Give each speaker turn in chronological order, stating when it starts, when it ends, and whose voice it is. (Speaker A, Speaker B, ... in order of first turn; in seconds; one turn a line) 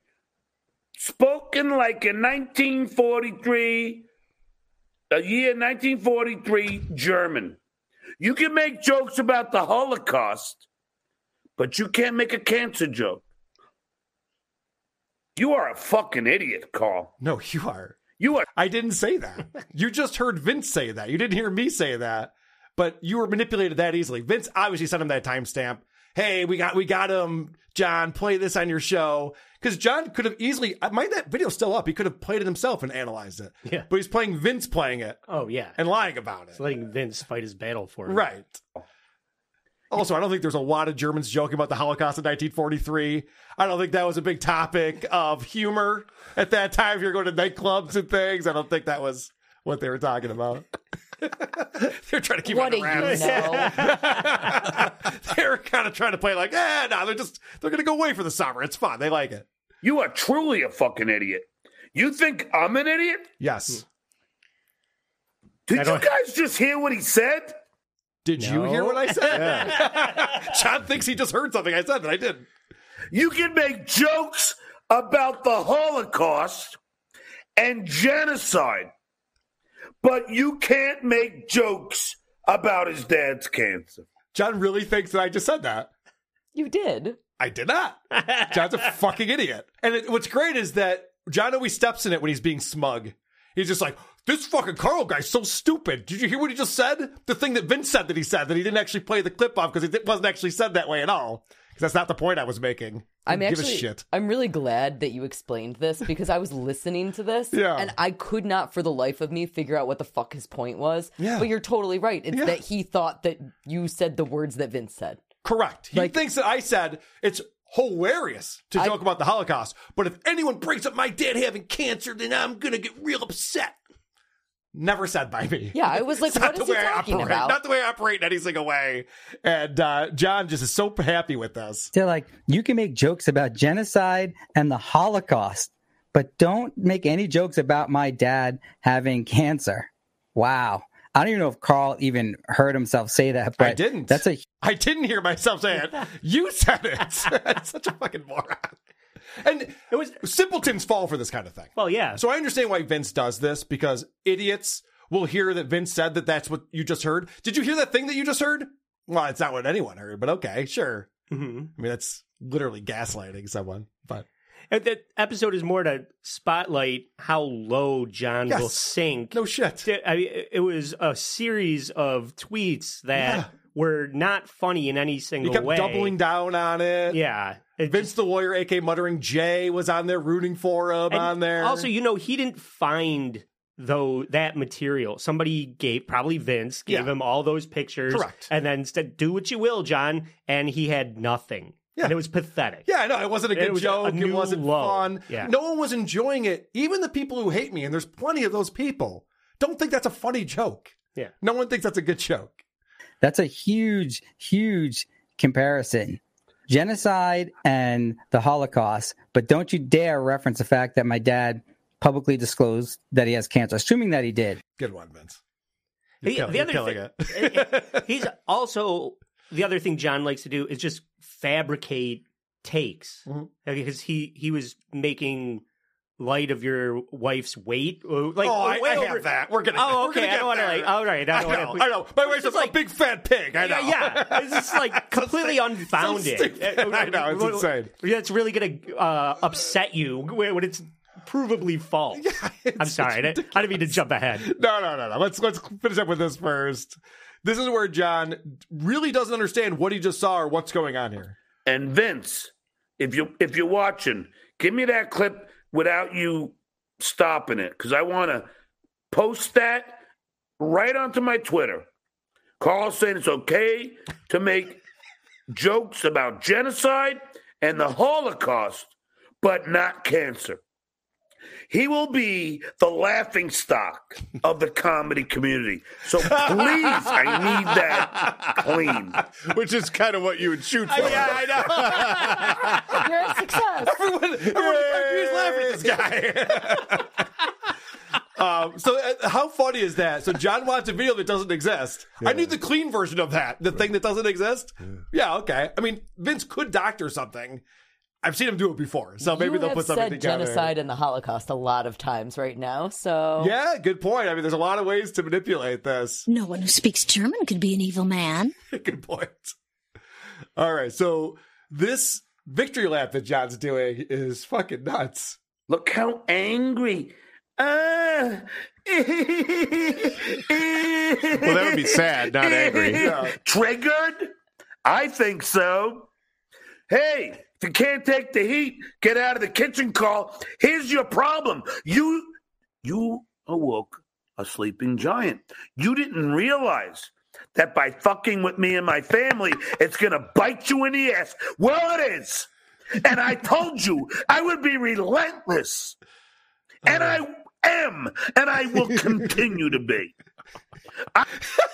Speaker A: 1.0-4.1
Speaker A: 5.1-7.6
Speaker A: 8.2-10.7
Speaker A: 11.6-13.2
Speaker A: 15.4-17.1
Speaker B: 17.2-35.2
Speaker A: 18.2-18.4
Speaker C: 35.3-35.8
Speaker B: 35.8-36.6
Speaker C: 36.6-38.2
Speaker B: 38.1-38.6
Speaker B: 39.9-50.7
Speaker B: 51.2-59.5
Speaker D: 52.5-53.8
Speaker C: 53.0-54.7
Speaker A: 59.8-63.3
Speaker B: 63.4-63.8
Speaker A: 65.7-67.6
Speaker C: 65.8-66.0
Speaker B: 68.2-72.5
Speaker C: 68.4-70.2
Speaker E: 69.3-69.7
Speaker A: 73.1-76.8
Speaker A: 77.6-78.9
Speaker A: 80.0-84.0
Speaker B: 84.3-85.9
Speaker D: 86.5-87.2
Speaker B: 87.4-104.0
Speaker D: 103.3-115.2
Speaker B: 107.5-107.9
Speaker B: 111.2-111.5
Speaker B: 112.3-112.6
Speaker B: 115.4-123.8
Speaker B: 124.7-131.9
Speaker D: 125.7-127.6
Speaker F: 131.9-144.4
Speaker B: 143.6-148.8
Speaker B: 149.4-161.1
Speaker C: 151.8-152.2
Speaker C: 161.3-161.7
Speaker B: 161.8-164.3
Speaker C: 164.7-176.2
Speaker B: 168.5-169.9
Speaker B: 173.2-173.5
Speaker B: 175.4-177.2
Speaker C: 177.1-178.1
Speaker B: 177.9-181.9
Speaker C: 181.1-192.9
Speaker B: 188.1-188.5
Speaker B: 192.9-202.6
Speaker C: 193.6-195.5
Speaker F: 203.2-214.6
Speaker B: 214.8-215.4
Speaker B: 216.2-218.0
Speaker C: 216.2-225.6
Speaker C: 226.2-232.8
Speaker B: 228.4-237.9
Speaker C: 233.6-242.2
Speaker B: 242.2-251.4
Speaker C: 242.8-244.5
Speaker A: 251.7-258.5
Speaker A: 259.1-260.0
Speaker A: 260.6-261.9
Speaker A: 262.6-264.8
Speaker A: 265.5-270.6
Speaker A: 271.7-279.2
Speaker E: 277.2-277.6
Speaker E: 279.4-282.8
Speaker C: 280.9-282.6
Speaker B: 281.0-282.5
Speaker D: 283.0-284.0
Speaker B: 283.8-287.1
Speaker E: 284.6-285.4
Speaker B: 288.4-297.6
Speaker E: 292.2-292.5
Speaker B: 298.2-300.7
Speaker D: 299.2-303.5
Speaker B: 303.4-306.3
Speaker G: 306.3-308.5
Speaker B: 308.7-309.5
Speaker B: 310.6-315.4
Speaker A: 315.7-324.3
Speaker E: 321.4-323.2
Speaker B: 323.0-323.3
Speaker A: 324.9-326.1
Speaker A: 326.9-332.3
Speaker A: 332.8-342.5
Speaker A: 343.0-346.0
Speaker A: 346.9-350.1